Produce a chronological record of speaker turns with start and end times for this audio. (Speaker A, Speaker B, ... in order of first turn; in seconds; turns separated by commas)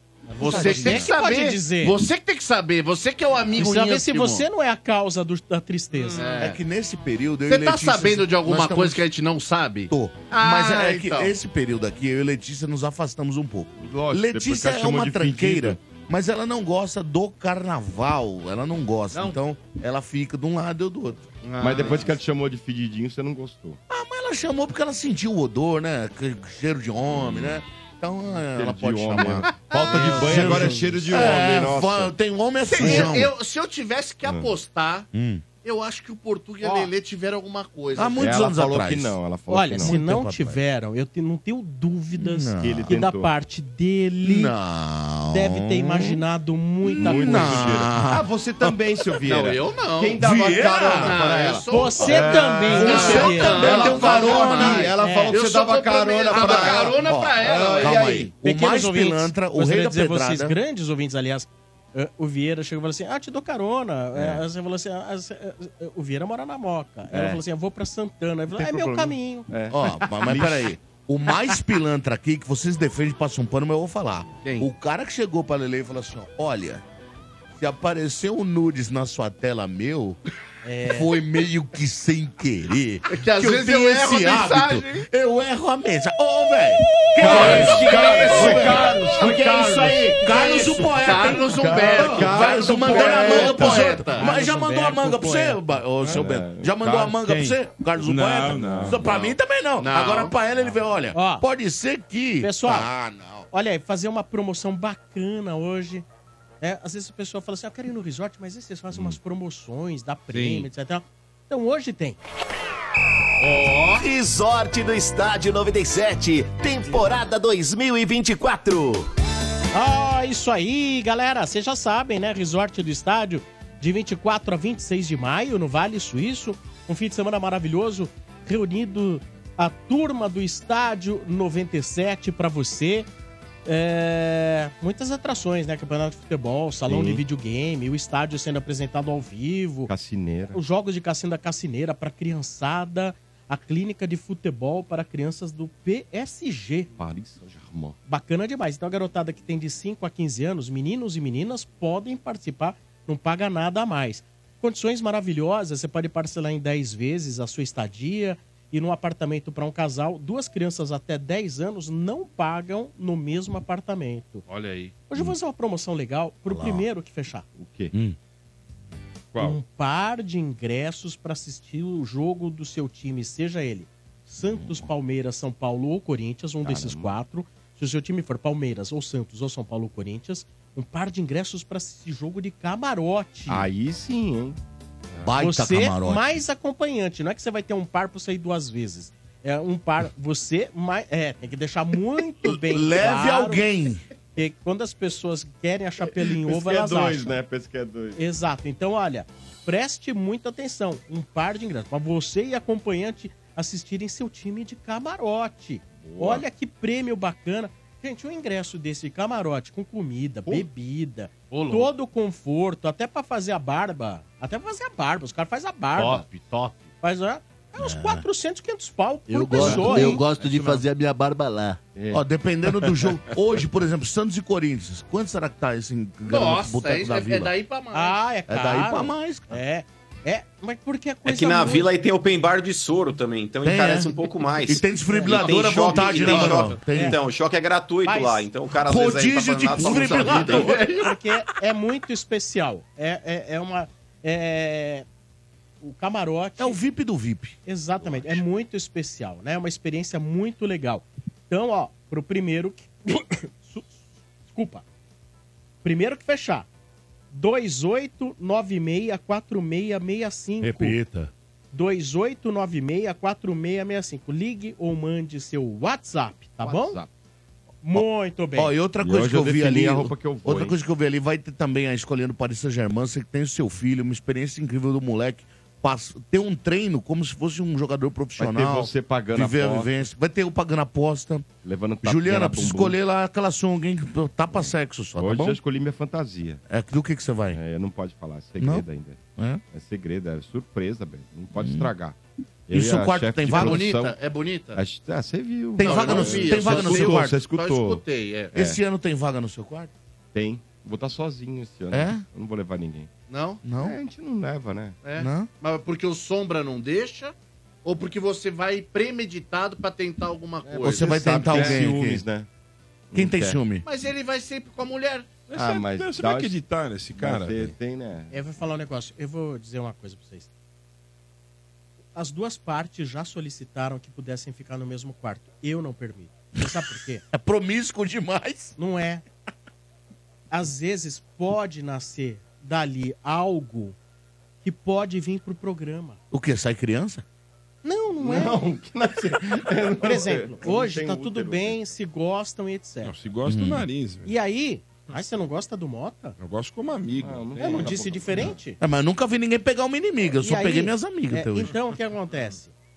Speaker A: 0.3-2.0, Speaker B: 0.4-4.4, Speaker C: 0.4-1.1, Speaker A: 3.5-6.3, Speaker B: 6.1-6.6, Speaker C: 6.3-9.0, Speaker B: 7.5-11.3, Speaker C: 9.9-21.3, Speaker D: 13.8-15.8, Speaker B: 19.1-19.4, Speaker B: 21.4-22.1, Speaker D: 21.6-23.8, Speaker C: 23.9-33.3, Speaker D: 28.5-32.1, Speaker B: 29.4-30.7, Speaker B: 32.6-35.1, Speaker D: 32.8-33.2, Speaker D: 34.2-34.5, Speaker C: 35.1-35.4, Speaker B: 35.6-38.3, Speaker C: 37.9-39.2, Speaker D: 38.2-40.0, Speaker A: 39.5-44.5, Speaker C: 39.8-40.6, Speaker C: 42.2-42.9, Speaker D: 42.6-43.3, Speaker C: 44.2-46.2, Speaker A: 45.3-47.8, Speaker C: 46.9-49.0, Speaker D: 46.9-58.3, Speaker B: 49.2-50.2, Speaker C: 50.2-51.2, Speaker B: 50.8-58.1, Speaker A: 51.7-54.0, Speaker C: 52.7-54.9, Speaker A: 54.9-55.4, Speaker C: 56.3-60.5, Speaker A: 58.4-69.5, Speaker D: 64.2-64.4, Speaker D: 67.1-67.4, Speaker D: 68.5-70.7, Speaker C: 69.7-76.8, Speaker B: 74.4-74.7, Speaker C: 77.6-80.2, Speaker A: 80.6-81.1, Speaker C: 80.8-103.5, Speaker B: 83.1-85.0, Speaker D: 87.2-89.7, Speaker B: 87.2-94.3, Speaker D: 91.6-93.9, Speaker A: 94.1-95.6, Speaker D: 96.0-97.5, Speaker E: 98.0-99.0, Speaker D: 98.5-99.0, Speaker B: 99.1-100.3, Speaker A: 101.1-101.4, Speaker A: 102.4-102.9, Speaker A: 103.5-106.0, Speaker A: 106.6-112.2, Speaker F: 113.6-114.5, Speaker F: 115.0-118.2, Speaker A: 119.7-133.1, Speaker A: 133.6-139.9, Speaker D: 136.9-137.2, Speaker D: 139.9-140.6, Speaker A: 140.5-146.9, Speaker D: 147.0-148.0, Speaker A: 148.1-164.4, Speaker B: 164.5-164.9, Speaker A: 165.1-167.4, Speaker C: 166.5-166.8, Speaker D: 167.6-167.9, Speaker C: 167.9-168.2, Speaker D: 169.3-169.6, Speaker A: 169.4-183.7, Speaker D: 176.6-177.1, Speaker D: 183.5-184.6, Speaker C: 185.2-186.2, Speaker A: 185.4-193.7, Speaker C: 192.4-194.0, Speaker A: 194.3-197.4, Speaker D: 196.3-198.2, Speaker A: 198.2-216.2, Speaker D: 206.0-206.4, Speaker B: 211.5-211.9, Speaker B: 216.3-216.7, Speaker A: 217.0-220.2, Speaker C: 217.8-218.2, Speaker G: 219.3-221.8, Speaker C: 219.5-220.2, Speaker B: 220.3-220.8, Speaker D: 221.9-222.2, Speaker C: 222.1-227.5, Speaker B: 226.2-228.2, Speaker A: 227.9-231.9, Speaker C: 228.5-229.6, Speaker H: 231.2-240.7, Speaker C: 233.6-237.2, Speaker A: 235.1-235.6, Speaker B: 235.3-236.8, Speaker A: 236.8-237.2, Speaker A: 238.0-238.5, Speaker C: 238.8-240.8, Speaker B: 239.8-241.1, Speaker A: 240.9-245.0, Speaker A: 245.8-246.8, Speaker C: 246.6-248.4, Speaker A: 247.7-253.9, Speaker A: 254.5-254.8, Speaker A: 255.8-256.7, Speaker A: 257.3-261.0, Speaker F: 260.6-261.2, Speaker A: 261.7-267.0, Speaker D: 266.6-267.1, Speaker A: 267.8-268.7, Speaker C: 268.5-281.5, Speaker D: 269.0-270.7, Speaker D: 278.4-280.0, Speaker D: 281.6-282.9, Speaker C: 282.0-285.6, Speaker D: 284.5-286.6, Speaker C: 286.7-287.6, Speaker D: 287.5-289.2, Speaker C: 288.6-288.8, Speaker C: 289.4-289.6, Speaker D: 289.7-292.1, Speaker C: 291.5-291.9, Speaker D: 292.7-294.2, Speaker C: 292.7-293.9, Speaker B: 293.5-294.8, Speaker D: 294.7-298.8, Speaker C: 295.8-297.4, Speaker B: 295.8-298.5, Speaker C: 298.5-299.9, Speaker D: 300.3-303.1, Speaker C: 301.9-302.2, Speaker B: 303.3-303.6, Speaker C: 303.6-304.0, Speaker D: 303.7-305.0, Speaker B: 305.0-311.7, Speaker C: 305.2-305.5, Speaker D: 310.6-312.5, Speaker C: 310.8-312.2, Speaker D: 313.1-313.6, Speaker C: 313.1-313.8, Speaker B: 313.8-315.4, Speaker E: 315.5-317.7, Speaker D: 315.5-316.6, Speaker D: 317.1-318.3, Speaker A: 318.3-320.5, Speaker A: 322.1-327.2, Speaker C: 327.3-328.7, Speaker A: 328.8-329.2, Speaker A: 330.5-333.9, Speaker A: 334.6-336.2, Speaker C: 336.3-337.2, Speaker A: 337.8-338.6, Speaker D: 338.2-341.9, Speaker A: 340.0-343.1, Speaker E: 343.0-344.3, Speaker C: 343.4-343.9, Speaker A: 344.2-346.4, Speaker E: 346.4-347.9, Speaker D: 347.2-348.6, Speaker A: 347.6-348.8, Speaker C: 348.8-351.7, Speaker A: 350.4-352.7